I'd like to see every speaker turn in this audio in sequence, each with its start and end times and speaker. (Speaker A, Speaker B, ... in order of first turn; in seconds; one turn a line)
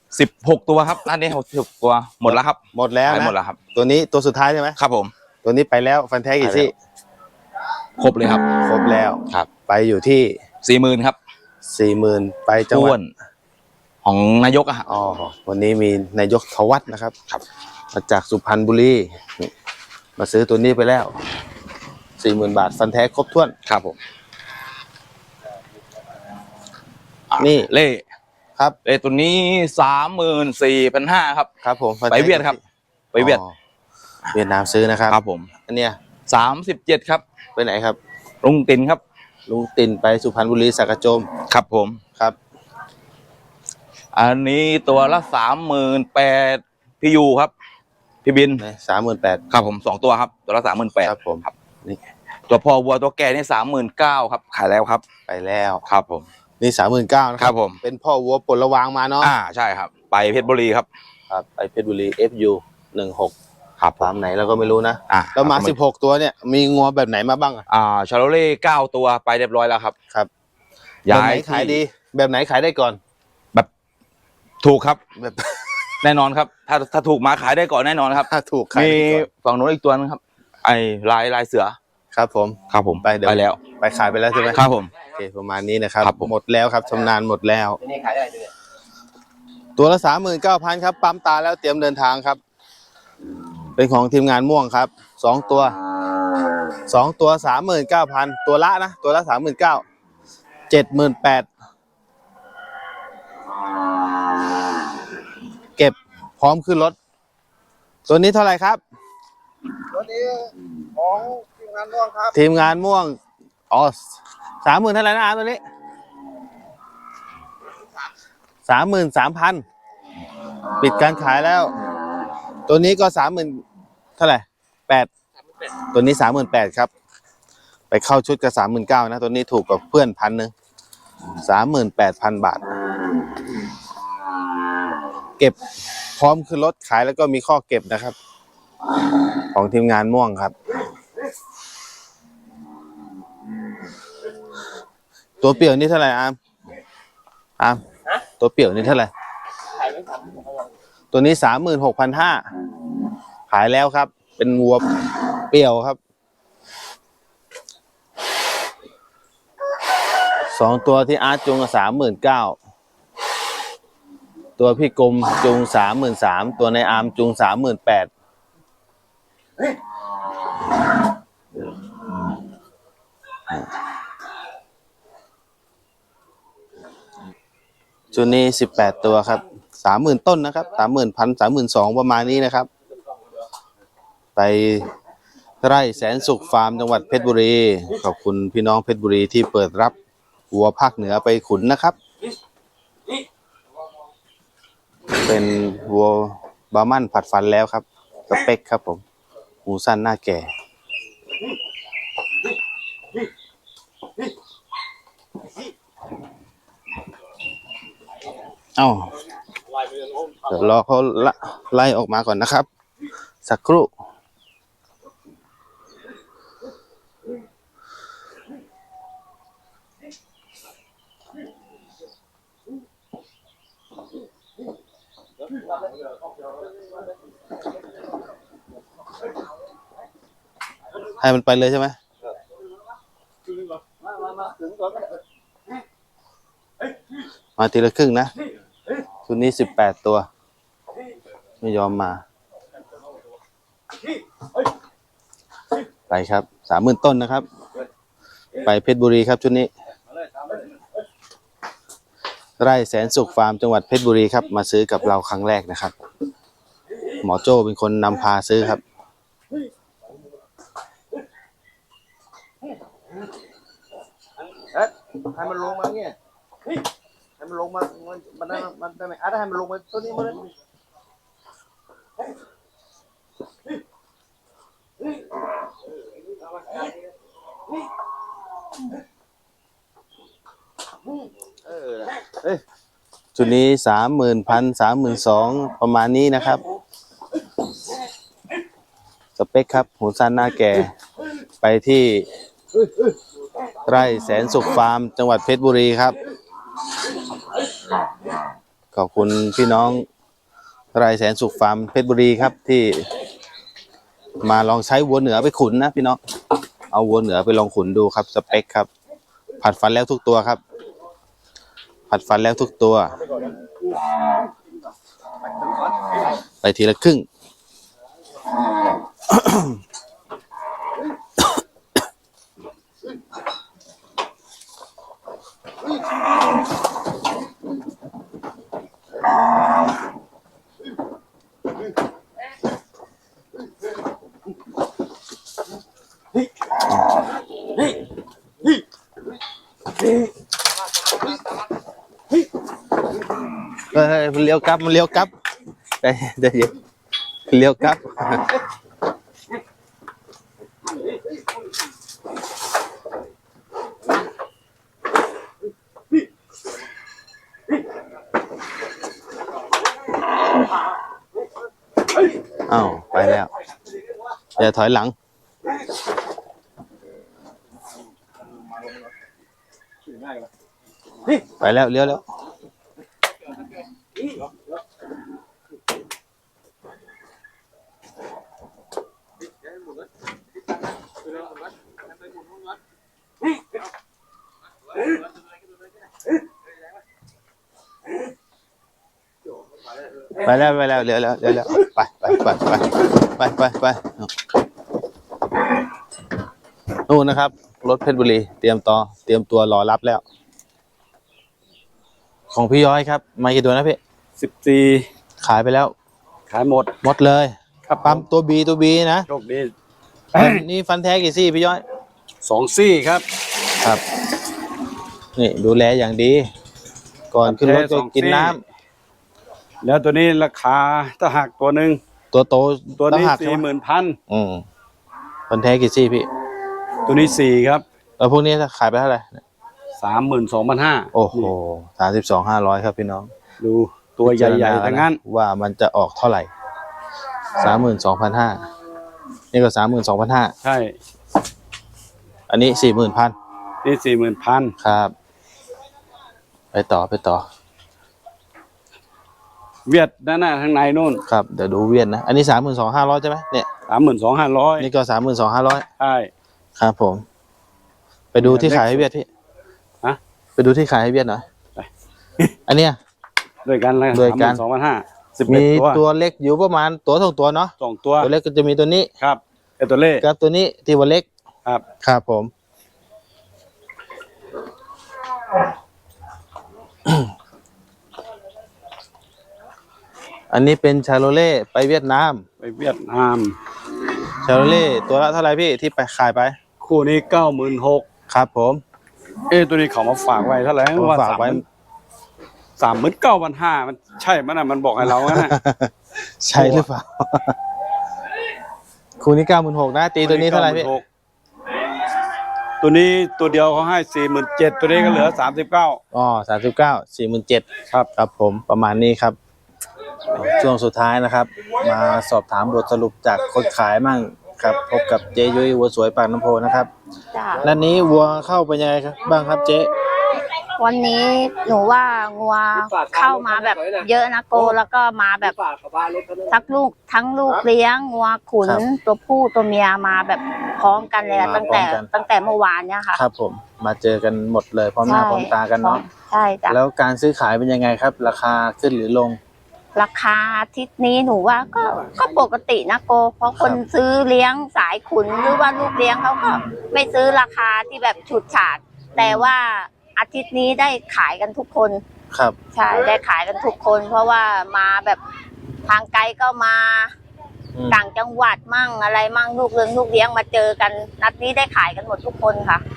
Speaker A: 0.1-3.6
Speaker B: 2.2-4.8
Speaker A: 4.8-5.1
Speaker B: 5.4-6.7
Speaker A: 6.4-6.7
Speaker A: 8.0-8.6
Speaker B: 8.4-10.4
Speaker A: 10.6-11.2
Speaker B: 11.6-13.0
Speaker A: 12.7-13.1
Speaker A: 14.0-14.8
Speaker B: 14.9-17.1
Speaker B: 17.9-19.5
Speaker B: 20.2-21.1
Speaker B: 22.2-23.5
Speaker A: 23.6-24.0
Speaker A: 27.3-28.0
Speaker B: 27.4-27.7
Speaker A: 28.8-31.5
Speaker B: 31.6-32.6
Speaker A: 32.1-32.6
Speaker A: 33.1-33.4
Speaker B: 33.2-33.5
Speaker B: 34.3-36.0
Speaker A: 35.1-35.5
Speaker A: 36.3-37.2
Speaker B: 37.5-38.0
Speaker A: 38.4-39.0
Speaker B: 39.5-41.3
Speaker A: 41.5-42.0
Speaker A: 44.1-47.5
Speaker A: 48.2-48.6
Speaker B: 48.6-49.4
Speaker A: 49.5-51.5
Speaker B: 51.0-52.0
Speaker A: 52.5-55.0
Speaker B: 55.3-55.8
Speaker A: 55.9-56.2
Speaker B: 56.6-59.3
Speaker A: 57.4-57.8
Speaker A: 59.2-60.9
Speaker B: 61.3-63.3
Speaker A: 63.8-64.1
Speaker B: 64.0-67.6
Speaker A: 65.1-65.8
Speaker A: 67.7-69.9
Speaker A: 71.0-71.8
Speaker B: 71.1-73.0
Speaker A: 74.6-75.0
Speaker B: 75.2-75.5
Speaker A: 76.0-81.8
Speaker B: 78.2-79.3
Speaker B: 82.1-87.8
Speaker A: 82.7-83.6
Speaker A: 84.5-84.9
Speaker A: 86.0-86.3
Speaker B: 89.8-92.4
Speaker B: 93.8-95.8
Speaker B: 96.9-99.8
Speaker B: 100.7-101.5
Speaker B: 105.8-107.0
Speaker B: 108.1-108.8
Speaker B: 112.1-113.2
Speaker B: 113.7-115.6
Speaker B: 118.7-119.6
Speaker B: 120.8-121.7
Speaker B: 122.7-123.6
Speaker B: 124.2-125.1
Speaker B: 125.9-126.9
Speaker B: 127.9-130.5
Speaker B: 131.4-132.6
Speaker B: 136.2-138.2
Speaker B: 139.5-140.5
Speaker B: 145.4-146.3
Speaker B: 148.4-149.1
Speaker B: 151.1-152.4
Speaker B: 153.5-154.8
Speaker B: 155.5-156.0
Speaker B: 160.5-162.6
Speaker B: 164.6-168.1
Speaker B: 178.1-182.7
Speaker B: 184.3-184.9
Speaker B: 185.6-189.9
Speaker B: 190.5-191.9
Speaker B: 195.2-199.0
Speaker B: 199.7-200.5
Speaker B: 208.8-209.1
Speaker B: 210.4-212.7
Speaker B: 213.4-213.9
Speaker B: 231.2-231.9
Speaker B: 237.6-238.3
Speaker B: 239.3-240.3
Speaker B: 241.6-242.2
Speaker B: 246.1-247.4
Speaker B: 248.6-249.7
Speaker B: 252.6-255.9
Speaker B: 257.2-258.8
Speaker C: 265.5-266.1
Speaker C: 267.8-270.3
Speaker B: 283.3-286.6
Speaker B: 289.4-290.9
Speaker B: 291.6-292.3
Speaker B: 293.9-296.2
Speaker B: 298.9-300.1
Speaker B: 300.9-303.1
Speaker B: 304.4-306.2
Speaker B: 306.9-308.9
Speaker B: 309.6-310.6
Speaker B: 312.1-313.2
Speaker B: 316.6-317.2
Speaker B: 319.3-319.7
Speaker B: 343.9-345.3
Speaker B: 346.0-346.8
Speaker B: 347.5-348.6
Speaker B: 362.7-363.5
Speaker B: 364.6-365.1
Speaker B: 371.6-372.2
Speaker B: 390.4-394.3
Speaker B: 397.1-400.2
Speaker B: 402.5-404.0
Speaker D: 404.4-405.1
Speaker B: 405.4-405.9
Speaker D: 406.5-406.9
Speaker B: 407.0-409.3
Speaker D: 407.9-408.2
Speaker D: 409.3-409.7
Speaker B: 410.3-411.8
Speaker D: 410.4-410.6
Speaker D: 412.4-413.2
Speaker B: 415.3-416.5
Speaker B: 417.3-418.6
Speaker D: 417.4-418.6
Speaker D: 419.8-422.0
Speaker B: 422.3-423.6
Speaker D: 423.0-424.2
Speaker B: 424.3-424.6
Speaker B: 425.5-426.3
Speaker D: 427.1-427.8
Speaker B: 428.2-429.4
Speaker D: 430.0-431.5
Speaker B: 431.1-433.3
Speaker D: 433.6-435.2
Speaker B: 434.2-436.5
Speaker B: 437.6-438.6
Speaker B: 439.5-440.5
Speaker D: 440.6-440.9
Speaker B: 442.5-443.3
Speaker D: 443.8-444.7
Speaker B: 444.8-445.1
Speaker B: 446.7-447.4
Speaker D: 449.9-451.2
Speaker B: 451.3-453.6
Speaker D: 453.9-454.9
Speaker B: 454.8-455.8
Speaker D: 456.0-456.3
Speaker B: 456.8-457.2
Speaker B: 458.3-459.2
Speaker D: 458.4-459.1
Speaker B: 460.6-461.4
Speaker D: 461.8-462.5
Speaker B: 462.7-463.0
Speaker D: 463.6-466.0
Speaker B: 464.1-464.6
Speaker B: 465.4-469.1
Speaker D: 467.8-468.3
Speaker D: 469.2-470.2
Speaker B: 470.2-471.3
Speaker B: 472.0-472.5
Speaker B: 480.5-482.4
Speaker D: 482.6-483.6
Speaker B: 484.4-486.6
Speaker D: 486.8-488.0
Speaker B: 488.3-488.8
Speaker D: 489.5-491.6
Speaker B: 490.9-491.6
Speaker D: 492.8-495.5
Speaker B: 495.1-497.6
Speaker D: 496.6-496.8
Speaker B: 499.2-500.9
Speaker D: 500.2-501.0
Speaker D: 502.8-506.0
Speaker B: 506.1-509.4
Speaker B: 510.3-516.9
Speaker E: 517.3-517.6
Speaker B: 517.6-519.9
Speaker E: 520.8-525.7
Speaker E: 526.4-533.2
Speaker B: 531.4-532.1
Speaker B: 533.1-536.0
Speaker E: 535.0-536.8
Speaker B: 536.7-539.4
Speaker E: 539.9-552.0
Speaker B: 549.2-549.5
Speaker E: 552.7-555.2
Speaker E: 555.9-557.1
Speaker B: 557.8-558.0
Speaker E: 557.9-562.8